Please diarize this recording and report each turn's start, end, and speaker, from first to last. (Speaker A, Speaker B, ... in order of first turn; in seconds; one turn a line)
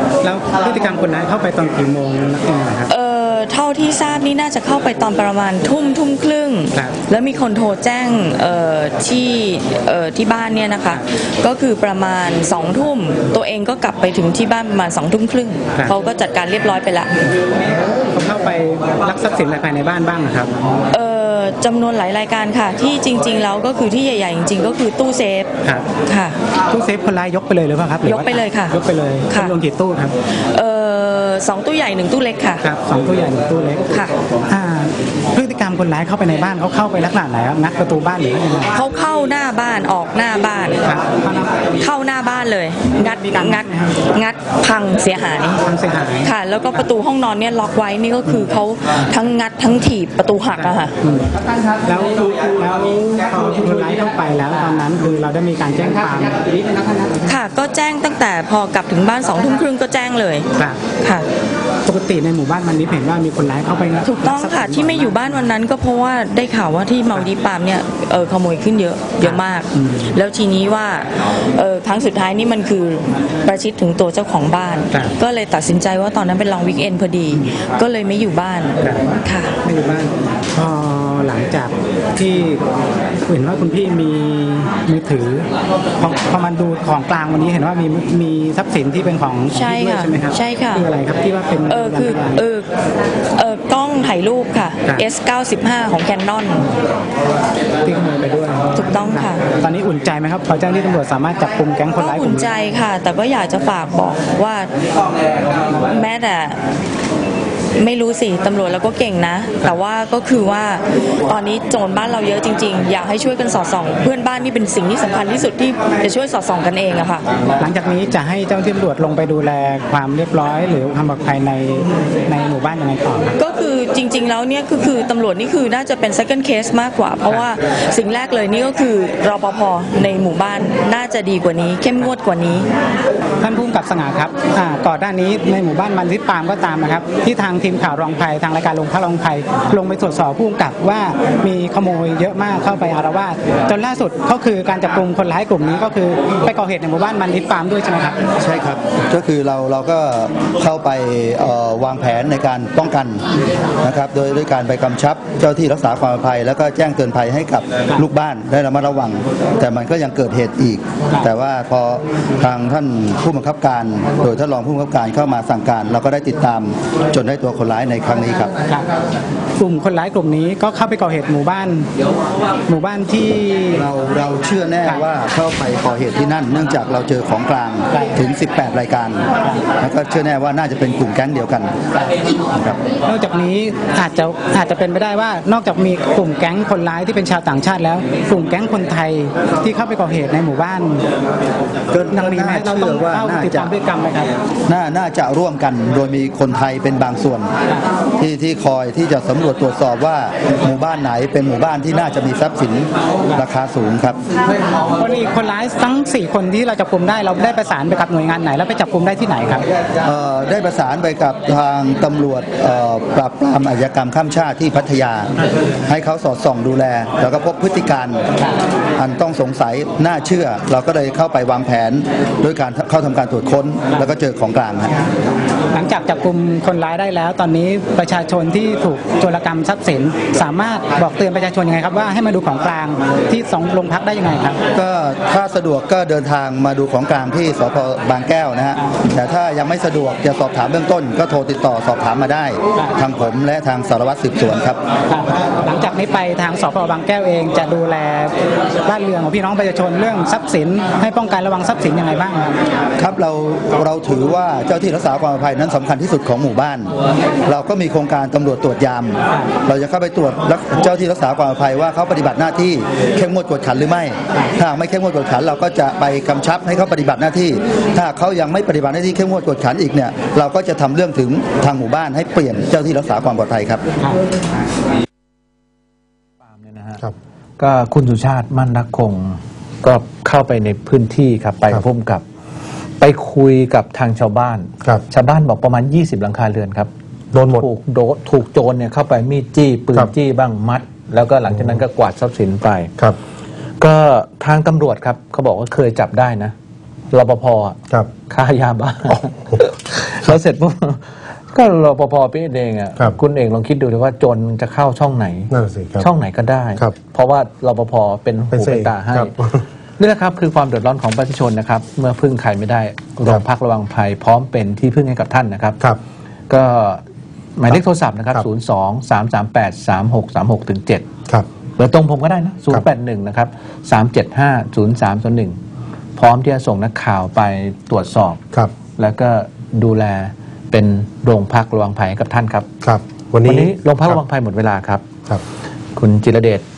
Speaker A: 0.2-2.9
Speaker B: 2.9-17.1
Speaker A: 18.1-20.5
Speaker B: 20.9-25.5
Speaker B: 26.1-26.4
Speaker A: 26.7-30.1
Speaker B: 28.1-28.8
Speaker B: 29.3-29.5
Speaker B: 30.5-32.6
Speaker A: 32.6-33.8
Speaker A: 34.5-38.8
Speaker B: 38.8-40.8
Speaker A: 40.8-41.7
Speaker B: 41.8-45.6
Speaker A: 42.9-43.9
Speaker A: 45.6-46.3
Speaker B: 46.2-50.9
Speaker A: 50.5-51.2
Speaker A: 51.8-57.2
Speaker B: 57.3-60.5
Speaker A: 60.5-60.8
Speaker B: 61.0-61.3
Speaker A: 61.8-65.3
Speaker B: 64.0-79.5
Speaker A: 69.2-70.0
Speaker A: 78.8-79.1
Speaker A: 79.6-82.6
Speaker A: 83.2-85.5
Speaker A: 86.0-92.4
Speaker B: 89.6-90.8
Speaker B: 91.7-92.7
Speaker B: 93.3-96.6
Speaker A: 97.8-102.5
Speaker B: 98.8-99.4
Speaker B: 102.0-104.7
Speaker B: 105.5-106.6
Speaker B: 107.8-117.3
Speaker A: 117.6-123.4
Speaker B: 123.3-132.7
Speaker A: 133.4-148.2
Speaker C: 148.4-153.2
Speaker C: 153.8-168.6
Speaker A: 169.6-171.9
Speaker A: 172.7-173.8
Speaker C: 173.7-179.3
Speaker C: 179.8-181.7
Speaker C: 182.4-182.8
Speaker A: 183.0-191.0
Speaker C: 191.9-193.7
Speaker A: 192.1-194.3
Speaker C: 194.7-197.5
Speaker C: 198.2-204.2
Speaker A: 205.0-209.6
Speaker C: 210.0-215.3
Speaker C: 215.8-218.2
Speaker C: 219.0-225.0
Speaker A: 225.7-234.6
Speaker C: 234.7-244.8
Speaker A: 245.1-252.6
Speaker C: 253.0-256.9
Speaker C: 257.4-273.8
Speaker D: 276.4-277.0
Speaker D: 277.6-282.2
Speaker D: 283.0-286.9
Speaker E: 287.3-287.6
Speaker D: 287.4-292.9
Speaker D: 293.8-296.5
Speaker D: 297.1-309.3
Speaker E: 305.5-306.0
Speaker E: 308.5-309.4
Speaker D: 310.0-315.8
Speaker D: 316.5-317.0
Speaker D: 317.6-321.1
Speaker D: 321.8-325.6
Speaker D: 326.2-328.4
Speaker D: 328.9-332.7
Speaker E: 332.8-333.6
Speaker D: 333.4-335.1
Speaker D: 335.9-336.6